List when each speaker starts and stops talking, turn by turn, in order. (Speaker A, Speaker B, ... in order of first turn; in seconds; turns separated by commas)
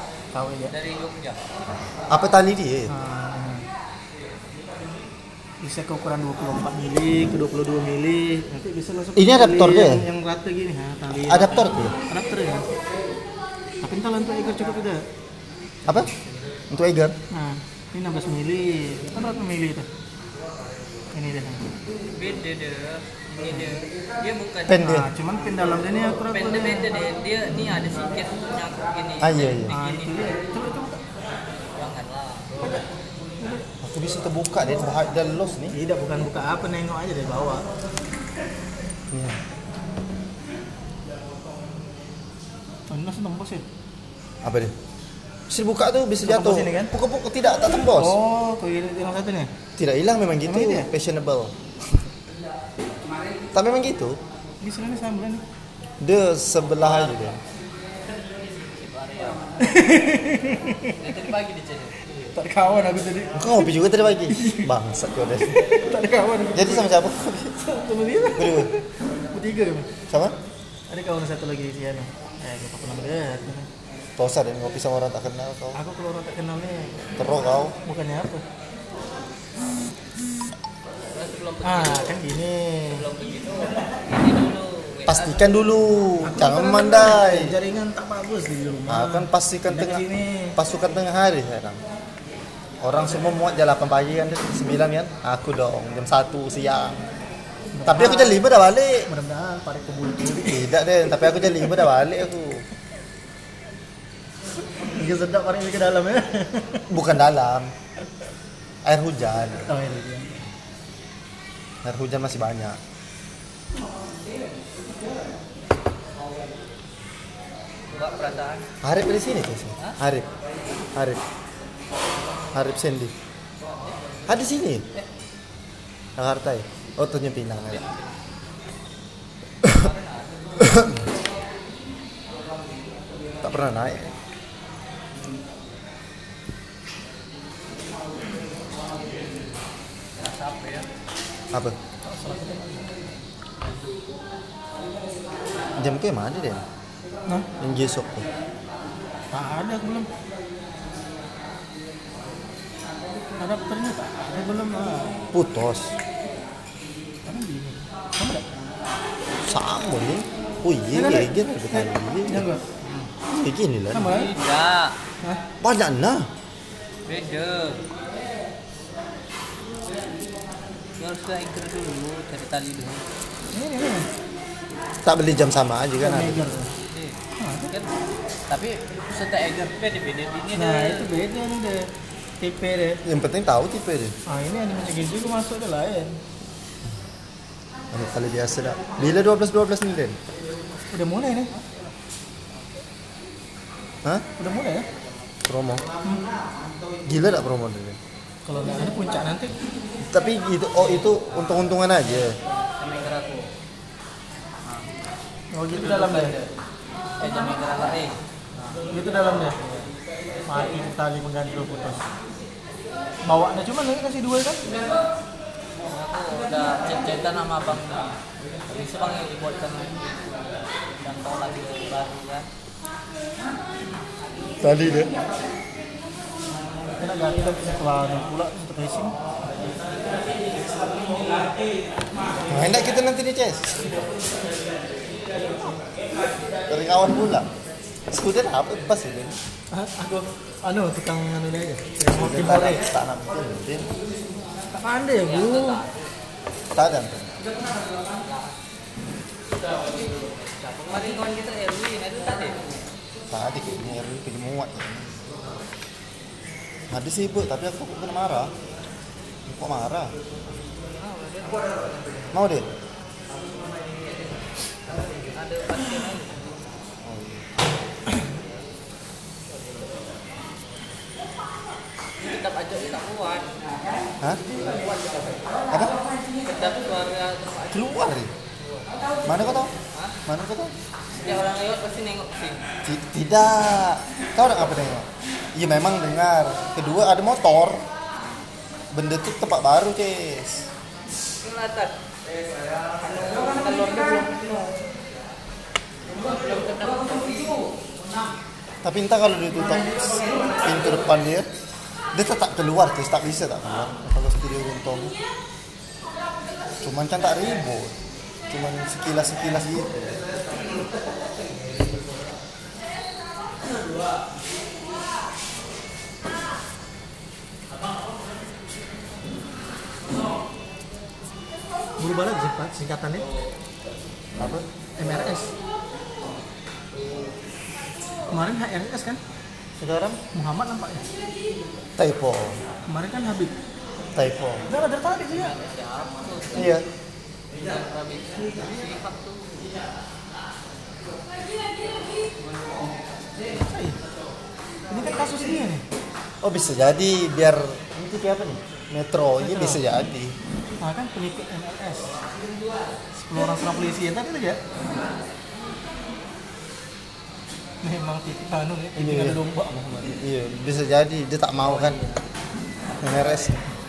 Speaker A: 0.3-0.7, Speaker B: 0.7-1.4, Speaker C: 2.1-2.9, Speaker A: 2.9-3.7, Speaker A: 5.6-12.7, Speaker C: 9.2-10.1, Speaker C: 11.2-11.9, Speaker A: 13.8-15.1, Speaker C: 16.7-17.1, Speaker A: 17.3-19.9, Speaker A: 21.1-21.7, Speaker B: 22.1-24.8, Speaker C: 24.7-25.1, Speaker A: 24.8-26.9, Speaker B: 26.2-30.5, Speaker C: 29.2-29.7, Speaker A: 29.7-31.0, Speaker B: 31.7-32.8, Speaker A: 33.4-33.7, Speaker C: 33.8-35.8, Speaker A: 35.7-37.6, Speaker C: 39.1-39.4, Speaker A: 42.9-43.6, Speaker C: 44.4-44.7, Speaker C: 45.5-48.2, Speaker A: 46.2-47.0, Speaker A: 47.6-49.5, Speaker C: 49.8-51.5, Speaker A: 50.5-50.9, Speaker C: 53.5-54.2, Speaker A: 54.6-55.4, Speaker C: 56.0-57.4, Speaker B: 58.4-59.7, Speaker A: 59.6-61.3, Speaker B: 60.9-62.0, Speaker A: 62.3-63.7, Speaker C: 63.4-65.7, Speaker A: 64.3-64.7, Speaker A: 65.5-69.9, Speaker C: 66.5-67.5, Speaker C: 68.4-68.7, Speaker C: 70.1-70.4, Speaker A: 70.9-73.7, Speaker C: 74.2-75.8, Speaker A: 75.7-77.0, Speaker C: 77.2-77.8, Speaker A: 77.7-78.4, Speaker B: 81.1-82.2, Speaker A: 81.6-83.0, Speaker B: 82.9-85.5, Speaker C: 85.1-87.5, Speaker A: 86.2-90.6, Speaker C: 88.9-90.0, Speaker C: 90.6-91.8, Speaker C: 92.8-97.0, Speaker A: 97.8-98.4, Speaker C: 97.9-99.1, Speaker A: 99.1-101.9, Speaker C: 100.4-102.7, Speaker A: 104.6-106.9, Speaker C: 106.9-107.7, Speaker C: 108.8-109.7, Speaker A: 109.7-110.5, Speaker C: 111.8-112.8, Speaker B: 117.9-118.7, Speaker C: 118.8-120.3, Speaker C: 121.0-121.2, Speaker C: 122.5-123.1, Speaker B: 123.7-124.0, Speaker C: 124.3-124.8, Speaker C: 126.2-127.8, Speaker B: 127.6-128.2, Speaker B: 129.6-130.8, Speaker C: 130.6-130.9, Speaker C: 133.4-134.1, Speaker B: 140.2-140.9, Speaker A: 142.0-142.9, Speaker C: 145.8-146.6, Speaker C: 147.6-148.3, Speaker A: 149.3-150.1, Speaker A: 153.4-155.2, Speaker C: 155.3-156.0, Speaker A: 157.3-158.5, Speaker C: 159.4-162.5, Speaker A: 160.9-162.7, Speaker B: 162.8-163.1, Speaker C: 163.3-164.1, Speaker A: 163.9-164.3, Speaker B: 164.0-165.0, Speaker C: 165.6-166.3, Speaker B: 167.1-167.8, Speaker B: 171.0-173.0, Speaker A: 173.5-174.1, Speaker C: 175.0-176.4, Speaker A: 176.0-176.7, Speaker B: 176.8-177.9, Speaker A: 177.4-177.7, Speaker B: 178.5-181.1, Speaker A: 180.5-181.9, Speaker A: 182.4-183.0, Speaker C: 183.1-184.2, Speaker A: 184.3-186.2, Speaker C: 187.9-190.2, Speaker A: 190.9-191.6, Speaker A: 194.4-194.9, Speaker C: 195.5-195.9, Speaker C: 197.1-198.0, Speaker A: 198.4-199.6, Speaker C: 200.0-202.4, Speaker B: 200.8-203.5, Speaker B: 204.6-204.9, Speaker A: 205.5-206.3, Speaker B: 205.7-206.6, Speaker B: 207.2-208.8, Speaker A: 208.9-209.6, Speaker A: 210.5-212.0, Speaker A: 213.2-214.7, Speaker B: 215.8-218.1, Speaker B: 218.7-222.5, Speaker C: 224.6-225.1, Speaker A: 226.9-229.2, Speaker C: 232.5-234.0, Speaker C: 236.7-237.5, Speaker C: 238.1-239.4, Speaker A: 239.7-242.9, Speaker C: 242.0-243.9, Speaker A: 244.7-245.8, Speaker B: 245.2-246.1, Speaker C: 246.7-247.4, Speaker B: 248.1-248.6, Speaker B: 250.4-252.6, Speaker C: 253.3-255.1, Speaker C: 256.9-258.5, Speaker C: 259.5-260.1, Speaker B: 260.9-262.0, Speaker C: 262.3-262.7, Speaker B: 264.9-266.6, Speaker C: 267.0-267.5, Speaker B: 272.2-273.6, Speaker C: 275.7-276.0, Speaker B: 276.4-278.2, Speaker C: 277.7-278.3, Speaker B: 278.8-279.3, Speaker C: 279.3-279.7, Speaker C: 280.3-280.7, Speaker B: 281.2-282.7, Speaker C: 282.9-287.8, Speaker C: 288.9-290.7, Speaker B: 291.4-292.0, Speaker B: 293.0-294.8, Speaker B: 296.2-297.6, Speaker C: 298.8-301.5, Speaker C: 302.1-305.1, Speaker C: 306.8-308.0, Speaker C: 308.5-310.2, Speaker A: 322.0-323.3, Speaker C: 324.4-324.6, Speaker A: 325.0-325.5, Speaker A: 328.3-329.2, Speaker C: 329.8-330.2, Speaker A: 330.3-331.1, Speaker C: 332.0-332.6, Speaker A: 332.9-333.6, Speaker C: 334.1-334.6, Speaker A: 334.7-335.5, Speaker B: 335.3-336.9, Speaker C: 336.5-336.9, Speaker B: 337.6-339.7, Speaker B: 342.4-342.9, Speaker A: 343.6-344.0, Speaker A: 344.9-345.8, Speaker C: 346.4-350.4, Speaker A: 349.4-349.8, Speaker A: 350.8-352.2, Speaker A: 353.2-354.6, Speaker A: 357.8-360.2, Speaker C: 359.0-359.4, Speaker C: 360.0-362.0, Speaker B: 361.6-362.2, Speaker C: 363.0-363.6